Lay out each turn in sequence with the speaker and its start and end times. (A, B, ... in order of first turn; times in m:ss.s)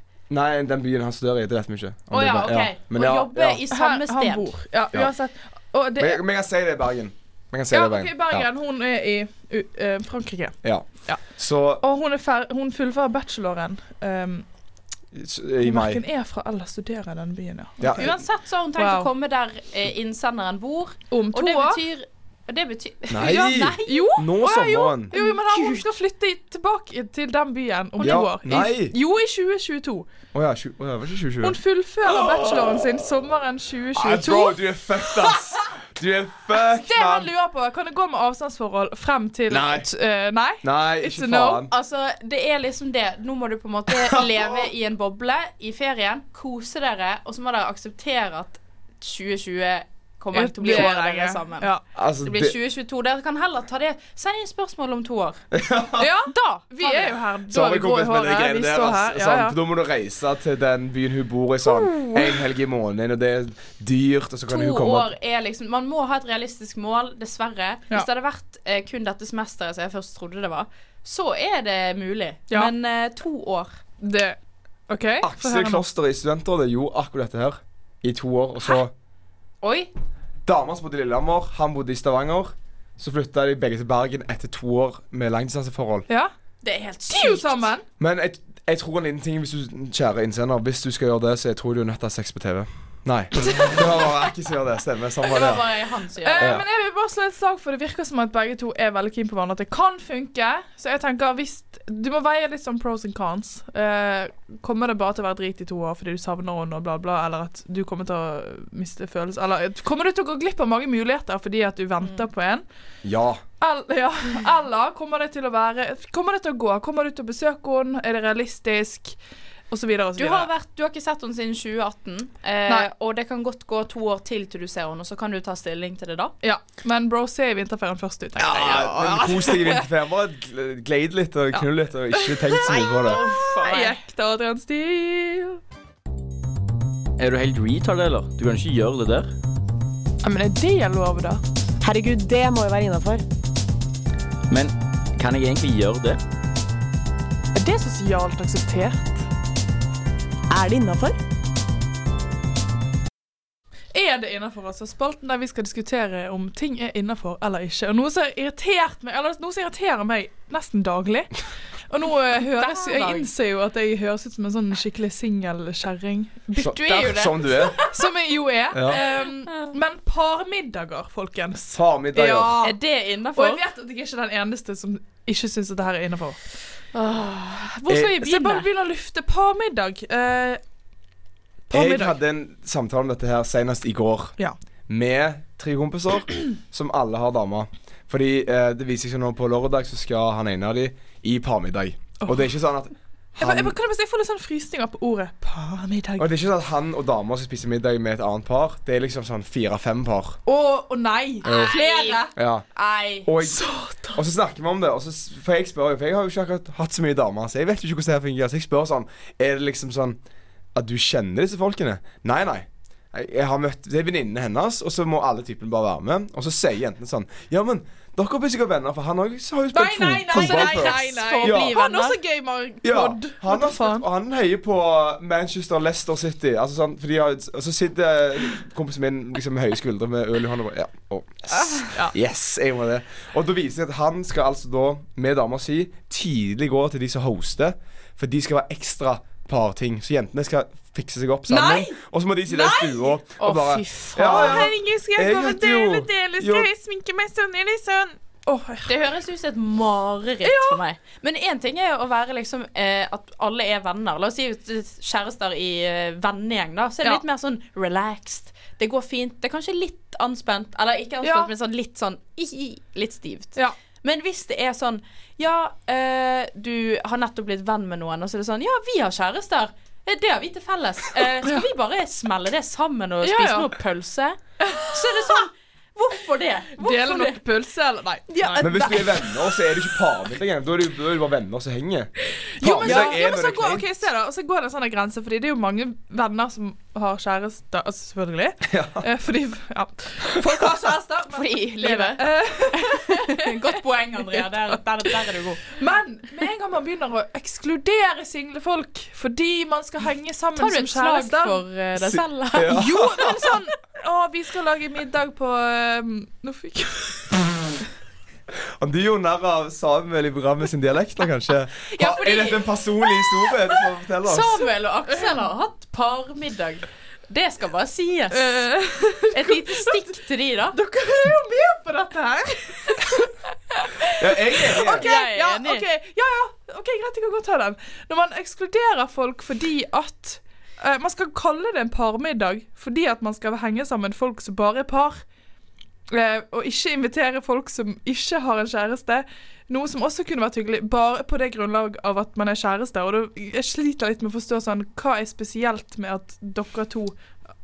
0:00.3-0:03.6 A
0:02.1-0:04.5 B
0:03.7-0:06.2 C
0:06.0-0:08.5 A
0:07.7-0:11.2 C
0:10.6-0:11.8 A
0:11.8-0:14.4 C
0:15.1-0:16.0 A
0:15.6-0:18.1 C
0:17.8-0:18.1 A
0:17.9-0:24.1 B
0:18.8-0:19.1 C
0:21.1-0:21.8 C
0:23.1-0:25.1 A
0:23.8-0:30.0 C
0:25.1-0:25.9 B
0:28.0-0:28.9 A
0:30.3-0:32.9 A
0:31.4-0:35.3 C
0:33.9-0:37.3 A
0:36.6-0:41.6 C
0:39.5-0:39.9 A
0:40.6-0:41.7 A
0:41.7-0:55.4 B
0:44.0-0:44.6 A
0:50.3-0:51.8 C
0:52.0-0:52.6 A
0:55.5-0:56.1 A
0:56.0-0:59.6 C
0:56.3-0:57.2 B
0:57.5-1:05.1 A
1:01.6-1:02.4 C
1:04.5-1:13.8 B
1:14.0-1:14.4 C
1:14.9-1:15.8 C
1:15.2-1:18.9 A
1:19.6-1:19.9 B
1:20.4-1:26.0 A
1:26.6-1:27.7 B
1:27.1-1:27.8 C
1:28.0-1:35.7 A
1:33.4-1:33.9 C
1:35.2-1:36.6 B
1:36.2-1:52.6 C
1:36.4-1:36.6 A
1:53.0-1:53.4 A
1:53.6-1:59.2 C
1:59.7-2:00.5 C
2:00.2-2:06.3 B
2:06.4-2:09.8 C
2:08.4-2:13.2 A
2:11.5-2:12.6 C
2:12.6-2:14.0 B
2:13.4-2:15.6 C
2:17.2-2:19.3 D
2:20.2-2:21.4 C
2:21.8-2:23.2 E
2:24.5-2:26.2 D
2:27.5-2:29.3 C
2:30.5-2:31.2 E
2:33.9-2:41.3 C
2:41.9-2:52.8 C
2:42.5-2:43.3 B
2:46.6-2:47.8 A
2:46.6-2:47.9 B
2:48.7-2:49.0 A
2:48.9-2:49.5 B
2:51.7-2:52.6 A
2:52.6-2:53.6 B
2:53.3-2:56.4 C
2:56.9-2:58.7 B
2:58.2-3:00.6 C
3:01.7-3:02.2 C
3:01.7-3:04.4 A
3:04.9-3:13.8 A
3:12.2-3:12.5 C
3:13.4-3:16.3 C
3:16.2-3:20.4 A
3:20.4-3:22.3 C
3:21.4-3:23.3 B
3:21.4-3:21.7 A
3:22.3-3:22.6 A
3:23.2-3:30.2 A
3:23.4-3:24.2 C
3:30.7-3:41.8 A
3:39.7-3:44.0 C
3:40.3-3:42.2 B
3:42.8-4:06.7 A
3:51.6-3:52.1 C
4:01.5-4:03.2 C
4:03.4-4:04.7 B
4:04.2-4:08.9 C
4:08.9-4:37.4 B
4:10.4-4:10.8 C
4:21.2-4:21.5 C
4:33.2-4:33.7 C
4:34.6-4:35.4 C
4:36.8-4:38.7 C
4:38.3-4:39.4 B
4:38.6-4:43.9 A
4:42.6-4:53.5 C
4:42.8-4:43.2 B
4:48.6-4:49.0 A
4:51.3-4:55.7 B
4:54.2-5:01.6 C
5:00.6-5:03.2 B
5:02.0-5:03.4 A
5:02.7-5:07.4 C
5:08.8-5:14.7 A
5:11.9-5:12.8 B
5:14.2-5:18.6 B
5:18.3-5:20.2 C
5:19.3-5:20.8 B
5:20.7-5:35.2 C
5:24.2-5:25.0 A
5:24.7-5:25.8 B
5:36.1-5:47.2 C